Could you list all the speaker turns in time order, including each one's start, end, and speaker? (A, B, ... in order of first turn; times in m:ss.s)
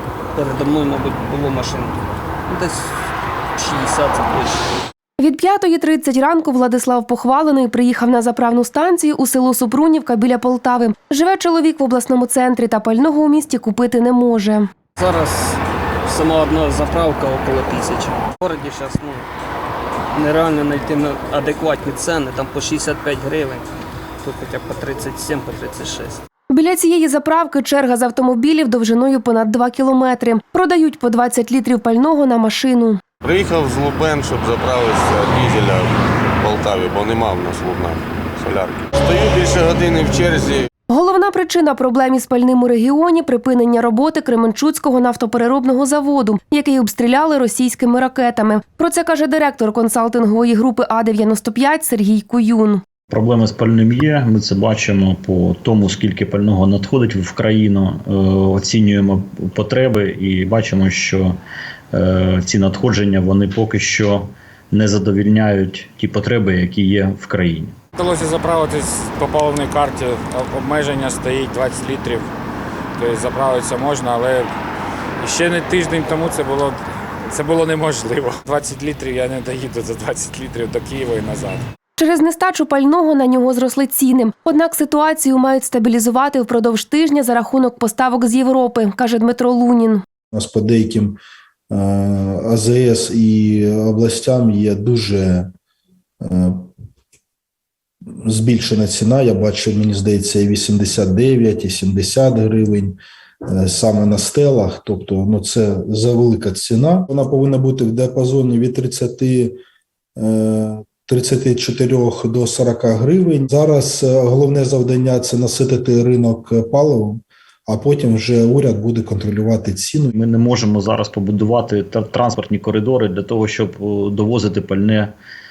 0:00.4-0:03.0 A
0:03.6-0:04.8 A
0:05.2-0:14.7 B
0:15.0-0:19.3 A
0:20.1-0:23.7 A
0:24.2-0:26.2 A
0:26.5-0:33.0 B
0:33.2-0:40.7 C
0:40.9-0:52.8 B
0:53.1-1:01.4 D
1:01.9-1:07.8 D
1:08.0-1:12.3 E
1:13.0-1:14.5 E
1:15.2-1:21.6 E
1:22.0-1:30.0 B
1:30.3-1:31.2 F
1:31.7-1:35.5 F
1:36.2-1:36.7 F
1:38.2-1:49.6 F
1:50.2-2:00.1 F
2:00.1-2:05.1 D